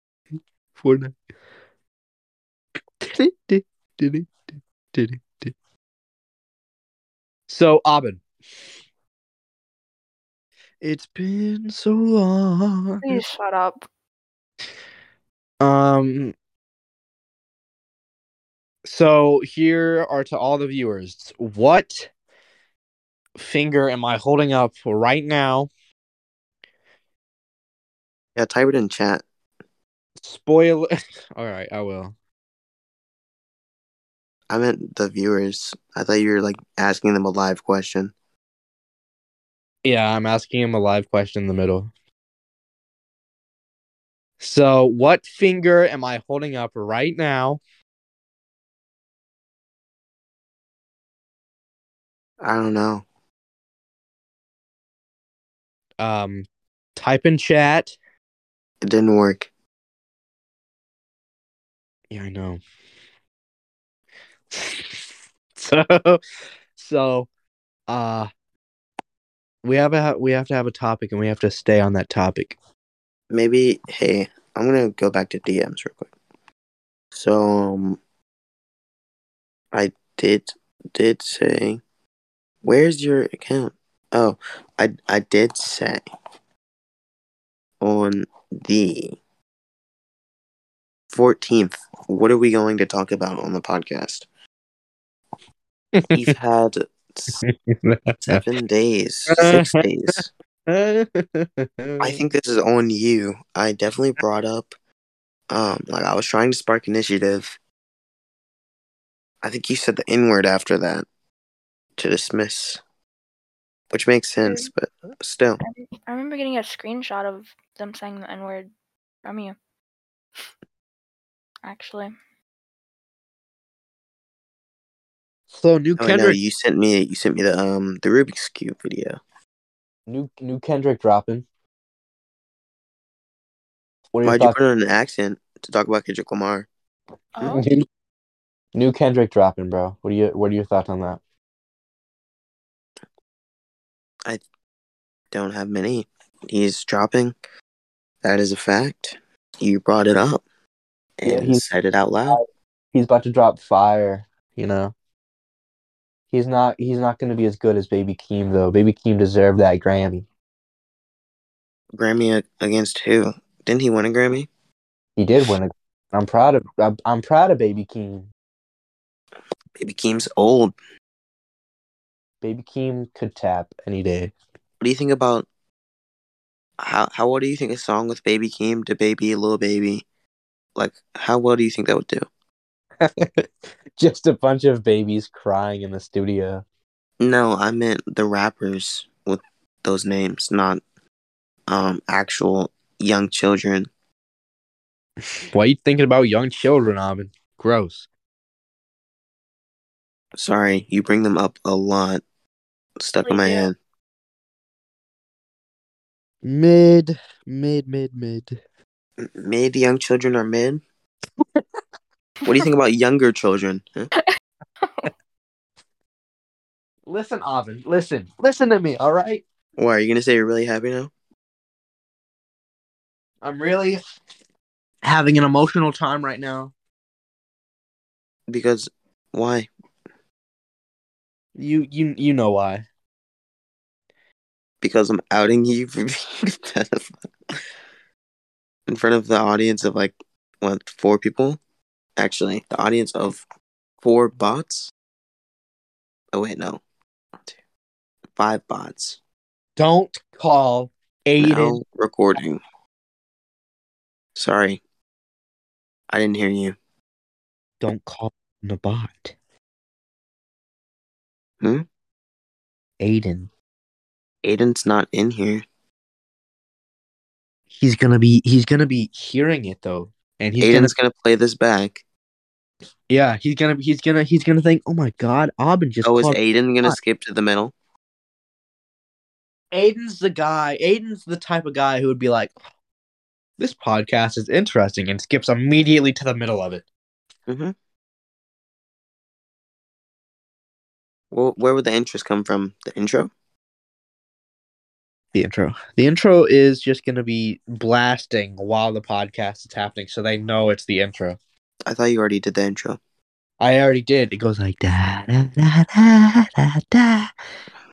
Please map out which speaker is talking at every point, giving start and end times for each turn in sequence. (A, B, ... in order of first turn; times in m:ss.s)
0:00.8-0:01.1 A
0:03.0-0:04.3 A
0:04.9-0:05.5 A
0:07.5-0:08.2 A
0:10.8-0:13.2 A
0:13.0-0:13.9 B
0:15.6-0:16.3 A
0:18.8-0:22.1 A
0:23.4-0:25.7 A
0:28.4-0:29.2 C
0:30.2-0:32.1 A
0:34.5-0:38.1 C
0:39.8-0:41.9 A
0:44.4-0:47.6 A
0:52.4-0:53.0 C
0:56.0-0:58.0 A
0:58.8-0:59.5 C
1:02.1-1:02.6 A
1:04.5-1:05.0 A
1:05.5-1:06.2 A
1:06.8-1:07.3 A
1:07.9-1:08.3 A
1:09.6-1:12.6 A
1:13.3-1:16.1 C
1:17.1-1:18.0 C
1:19.7-1:21.8 C
1:22.6-1:26.0 C
1:27.8-1:29.2 C
1:31.1-1:34.2 C
1:36.0-1:36.3 A
1:36.1-1:37.4 C
1:37.4-1:38.4 A
1:38.2-1:40.3 C
1:39.3-1:42.2 A
1:42.0-1:44.7 C
1:45.5-1:47.5 C
1:49.4-1:51.0 C
1:52.0-1:52.8 C
1:53.9-1:55.6 C
1:54.4-1:54.7 B
1:55.6-1:58.7 B
1:59.2-1:59.5 B
2:01.6-2:02.1 B
2:05.5-2:06.4 A
2:06.0-2:09.2 C
2:10.1-2:11.4 A
2:14.1-2:14.6 A
2:14.2-2:16.7 C
2:17.4-2:17.6 B
2:17.4-2:17.8 A
2:18.7-2:21.2 A
2:25.3-2:27.3 C
2:28.2-2:30.4 C
2:31.2-2:32.4 C
2:31.2-2:31.6 A
2:32.3-2:34.9 A
2:36.3-2:40.2 A
2:42.0-2:44.5 C
2:45.2-2:48.3 A
2:49.8-2:50.7 C
2:52.4-2:54.3 A
2:54.8-2:55.5 C
2:56.8-3:00.0 C
3:00.8-3:02.3 C
3:03.0-3:06.6 A
3:07.2-3:10.8 C
3:11.7-3:13.9 C
3:15.5-3:18.1 A
3:20.4-3:22.2 C
3:23.0-3:23.7 C
3:23.2-3:23.7 B
3:26.4-3:28.6 A
3:29.2-3:30.8 C
3:32.4-3:34.1 C
3:34.2-3:35.1 B
3:37.1-3:39.4 A
3:39.8-3:41.1 C
3:43.4-3:44.0 A
3:45.0-3:46.7 A
3:48.5-3:49.7 C
3:51.6-3:52.8 A
3:54.8-3:57.1 C
3:58.9-4:01.6 C
4:02.2-4:03.4 C
4:04.0-4:04.9 C
4:06.3-4:06.8 C
4:08.4-4:09.2 C
4:09.8-4:11.8 A
4:11.4-4:12.6 C
4:14.3-4:14.8 C
4:16.1-4:16.8 C
4:17.8-4:19.4 A
4:21.6-4:21.8 C
4:23.0-4:23.5 A
4:24.4-4:25.6 C
4:27.8-4:30.9 A
4:30.6-4:32.0 C
4:33.1-4:37.0 A
4:36.0-4:37.7 C
4:39.7-4:42.5 A
4:43.6-4:46.8 A
4:47.5-4:47.7 C
4:51.3-4:53.3 C
4:55.3-5:01.4 A
5:01.8-5:03.0 C
5:03.6-5:07.3 A